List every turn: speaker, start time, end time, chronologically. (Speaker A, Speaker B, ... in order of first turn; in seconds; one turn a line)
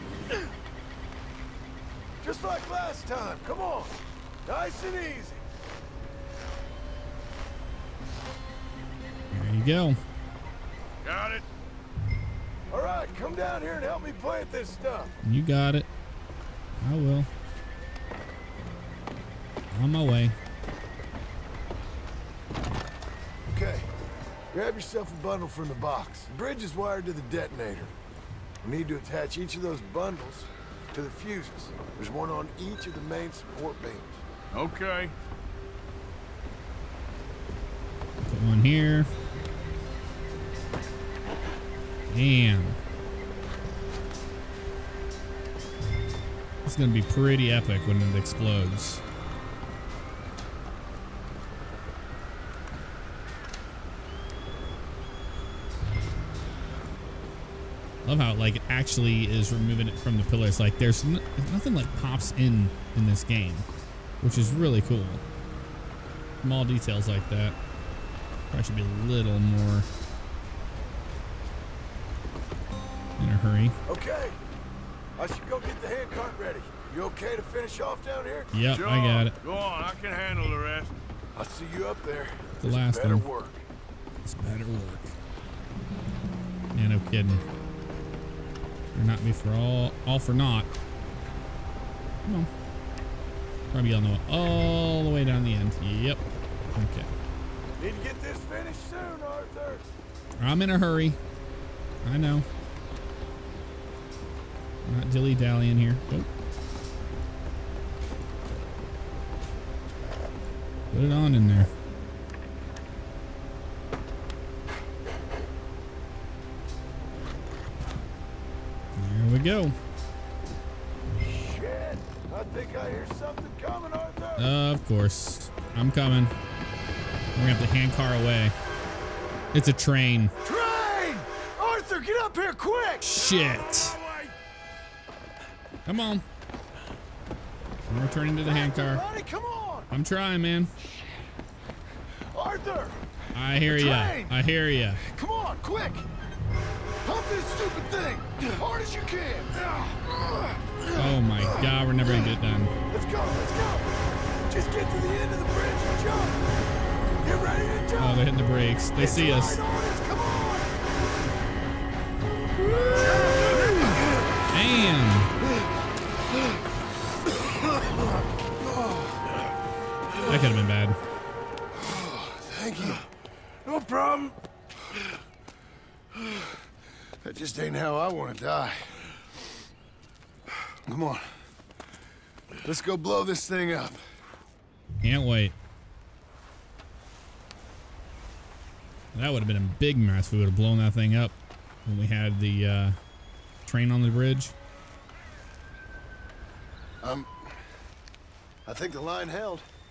Speaker A: 2.2-5.4
Speaker B: 9.3-10.0
Speaker C: 11.0-11.5
Speaker A: 12.7-15.2
Speaker B: 15.2-15.9
Speaker B: 16.8-17.3
Speaker B: 19.7-20.4
Speaker A: 23.5-23.9
Speaker A: 24.5-27.9
Speaker A: 28.6-34.2
Speaker C: 34.5-35.1
Speaker B: 38.2-39.1
Speaker B: 42.1-42.8
Speaker B: 46.6-49.0
Speaker B: 58.0-63.7
Speaker B: 64.2-65.2
Speaker B: 66.4-67.6
Speaker B: 68.5-69.9
Speaker B: 73.2-73.8
Speaker A: 73.9-74.4
Speaker A: 75.2-78.5
Speaker B: 78.5-79.3
Speaker C: 78.7-80.9
Speaker A: 81.3-83.7
Speaker B: 82.6-83.3
Speaker B: 84.2-85.2
Speaker B: 86.7-87.4
Speaker B: 89.0-90.7
Speaker B: 93.7-97.1
Speaker A: 97.8-99.9
Speaker B: 100.4-101.2
Speaker B: 102.0-102.5
Speaker B: 104.8-106.3
Speaker B: 110.9-111.7
Speaker B: 119.0-119.8
Speaker A: 121.2-124.5
Speaker B: 124.4-126.3
Speaker B: 127.3-128.5
Speaker B: 129.5-130.3
Speaker A: 130.4-133.2
Speaker B: 133.0-133.9
Speaker B: 135.9-136.3
Speaker B: 137.9-139.0
Speaker A: 138.4-139.9
Speaker B: 139.9-140.7
Speaker A: 142.3-143.0
Speaker B: 143.3-145.0
Speaker A: 143.6-144.3
Speaker A: 145.0-146.1
Speaker A: 147.0-152.4
Speaker B: 150.9-152.7
Speaker A: 152.9-156.4
Speaker A: 157.2-158.3
Speaker B: 158.0-159.6
Speaker A: 159.0-160.7
Speaker A: 162.6-164.1
Speaker B: 164.5-165.3
Speaker A: 167.6-168.0
Speaker A: 168.6-169.2
Speaker B: 170.2-171.0
Speaker A: 171.7-173.1
Speaker C: 173.7-174.3
Speaker A: 177.2-179.2
Speaker A: 180.8-181.4
Speaker A: 182.6-184.0
Speaker B: 185.0-185.6
Speaker B: 189.1-193.0
Speaker B: 193.7-194.5
Speaker A: 197.0-197.4
Speaker A: 198.7-199.7